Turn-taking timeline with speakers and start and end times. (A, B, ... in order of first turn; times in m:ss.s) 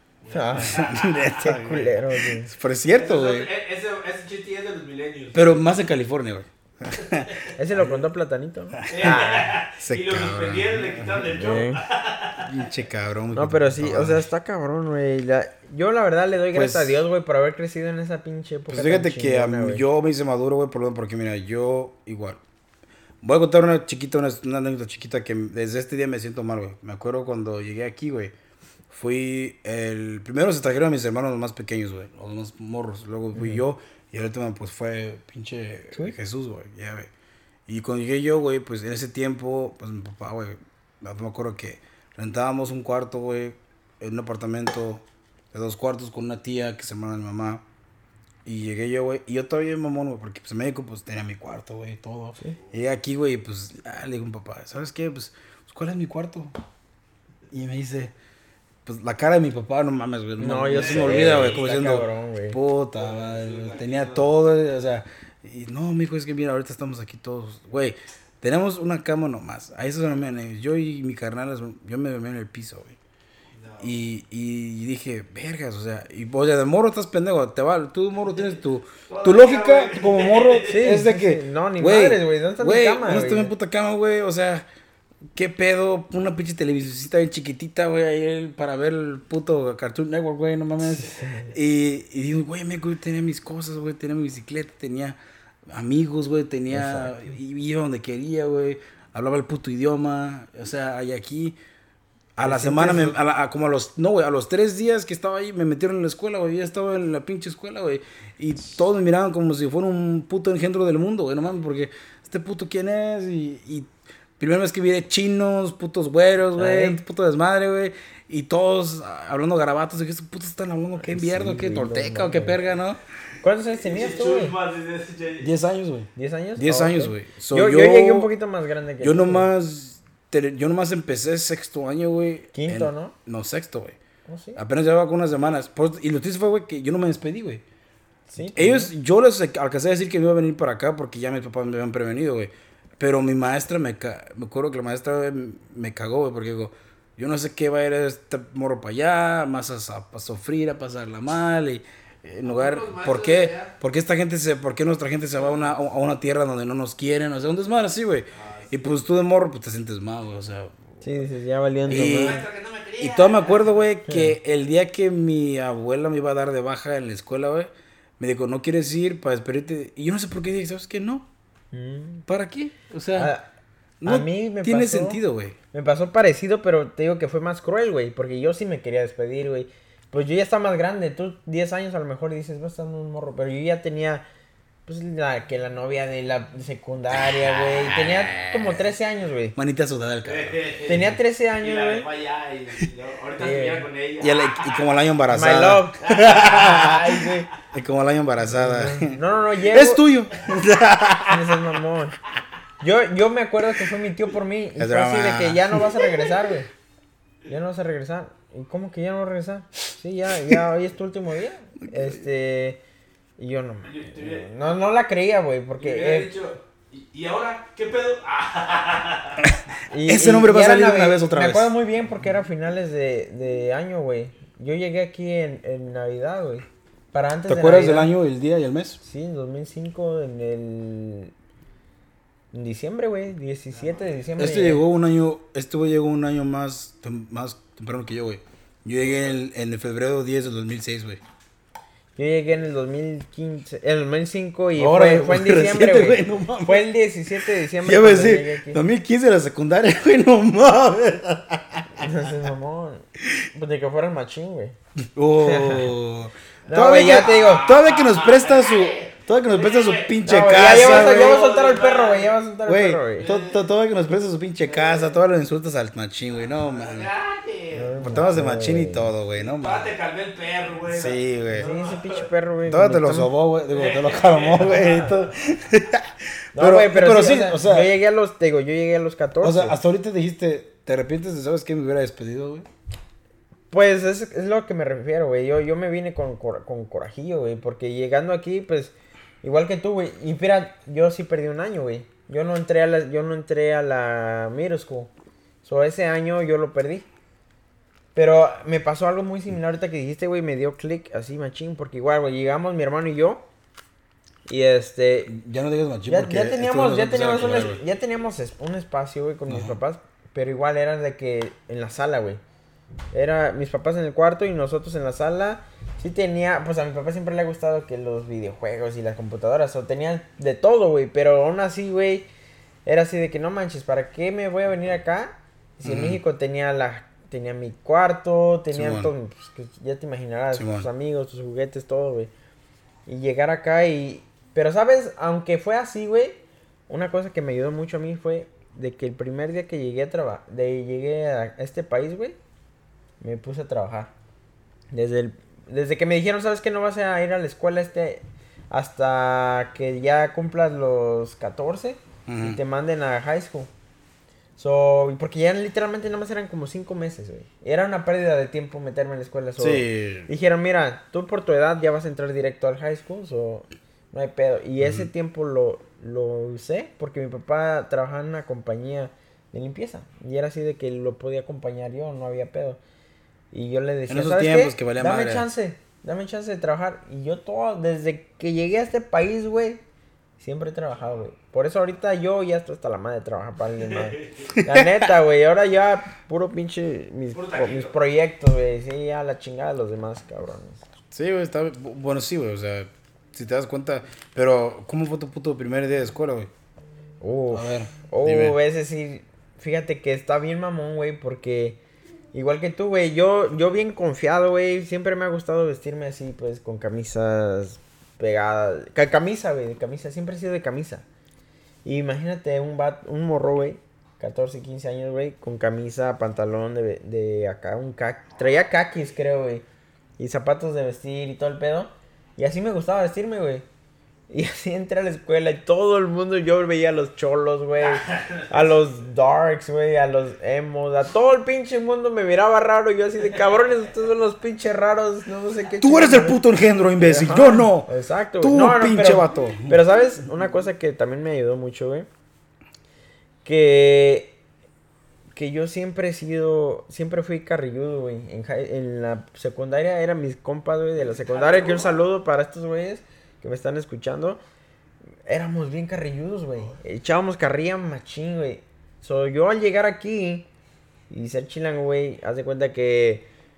0:00.2-0:01.4 A
0:00.3-0:02.5 B
0:00.5-0:03.5 C
0:02.9-0:05.6 A
0:05.3-0:08.1 C
0:07.0-0:07.5 A
0:07.6-0:09.6 B
0:08.8-0:09.2 C
0:08.9-0:12.6 A
0:09.8-0:11.4 C
0:11.4-0:11.8 B
0:12.4-0:14.3 C
0:13.3-0:19.8 B
0:16.5-0:17.0 C
0:18.7-0:22.4 C
0:23.2-0:28.3 C
0:28.9-0:37.1 C
0:33.3-0:33.6 B
0:37.7-0:47.6 C
0:48.4-0:56.5 C
0:57.5-0:58.1 C
0:58.8-1:13.0 C
1:00.4-1:02.6 B
1:00.7-1:01.6 A
1:03.0-1:04.2 A
1:13.6-1:14.0 A
1:13.8-1:24.7 C
1:19.1-1:20.8 A
1:20.7-1:23.5 B
1:25.3-1:35.2 C
1:31.0-1:31.5 B
1:35.7-1:41.6 C
1:36.7-1:37.3 B
1:42.4-2:03.0 C
1:42.4-1:43.1 B
1:56.6-1:57.0 B
2:01.1-2:02.6 B
2:03.4-2:04.6 B
2:03.8-2:05.5 A
2:05.4-2:08.3 C
2:06.2-2:09.5 B
2:09.0-2:14.0 C
2:12.5-2:13.1 B
2:14.3-2:14.6 B
2:14.6-2:17.6 C
2:18.3-2:18.9 B
2:18.5-2:40.8 C
2:32.4-2:33.7 A
2:38.3-2:39.0 A
2:41.0-2:42.4 B
2:41.9-2:42.4 C
2:41.9-2:43.8 A
2:43.0-2:51.2 C
2:44.1-2:44.3 B
2:51.7-2:52.2 B
2:52.3-2:53.3 C
2:53.2-2:53.5 B
2:54.0-2:55.6 C
2:54.0-2:55.2 B
2:55.7-3:04.2 B
3:04.9-3:09.5 B
3:07.1-3:08.9 C
3:09.6-3:11.2 C
3:10.2-3:14.4 A
3:10.9-3:12.1 B
3:13.4-3:13.9 B
3:14.2-3:21.6 C
3:15.3-3:17.5 B
3:16.0-3:17.1 A
3:18.5-3:20.0 B
3:21.3-3:22.2 B
3:22.8-3:26.7 B
3:24.8-3:26.0 C
3:27.5-3:32.8 B
3:31.8-3:32.2 C
3:33.4-3:36.3 B
3:33.8-3:34.5 A
3:35.8-3:39.4 A
3:39.4-3:41.7 C
3:39.9-3:48.1 B
3:47.5-3:49.0 C
3:49.0-3:51.3 B
3:52.5-3:54.8 B
3:54.4-4:01.2 C
4:02.2-4:08.8 B
4:04.8-4:06.9 C
4:07.6-4:12.3 C
4:12.0-4:14.7 B
4:15.1-4:21.4 C
4:15.4-4:15.9 B
4:16.7-4:17.7 B
4:17.0-4:22.4 A
4:20.2-4:23.3 B
4:22.7-4:27.1 C
4:23.2-4:23.6 A
4:24.7-4:25.2 A
4:26.5-4:28.0 A
4:27.7-4:29.1 B
4:28.0-4:29.9 C
4:29.3-4:32.3 A
4:30.9-4:31.7 C
4:31.5-4:33.3 B
4:32.7-4:37.9 C
4:33.7-4:35.0 A
4:34.8-4:35.1 B
4:36.5-4:39.7 B
4:39.4-4:42.7 C
4:43.7-4:55.1 B
4:55.6-4:57.1 B
4:58.1-5:03.4 B
5:04.5-5:05.3 B
5:05.3-5:07.8 C
5:06.1-5:12.4 B
5:07.4-5:07.7 A
5:09.5-5:09.8 C
5:13.1-5:22.3 B
5:22.8-5:32.3 B
5:25.8-5:26.2 C
5:28.7-5:29.1 C
5:30.5-5:30.9 C
5:33.0-5:42.4 B
5:43.2-5:44.1 B
5:44.9-5:53.7 B
5:52.3-5:52.6 C
5:54.6-6:12.8 B
5:59.6-6:00.3 C
6:04.8-6:05.1 C
6:13.5-6:19.8 B
6:14.1-6:15.5 C
6:20.4-6:30.8 B
6:23.9-6:24.3 A
6:24.5-6:24.9 C
6:27.3-6:27.9 A
6:31.1-6:36.5 C
6:37.2-6:41.8 B
6:37.5-6:38.6 C
6:42.3-6:51.0 B
6:51.8-6:59.6 B
7:00.2-7:03.6 B
7:04.3-7:16.4 B
7:07.9-7:08.5 A
7:15.8-7:17.9 C
7:17.0-7:22.1 B
7:18.4-7:19.8 C
7:23.4-7:24.4 B
7:25.3-7:34.4 B
7:31.0-7:32.0 A
7:35.2-7:40.5 B
7:41.1-7:43.3 B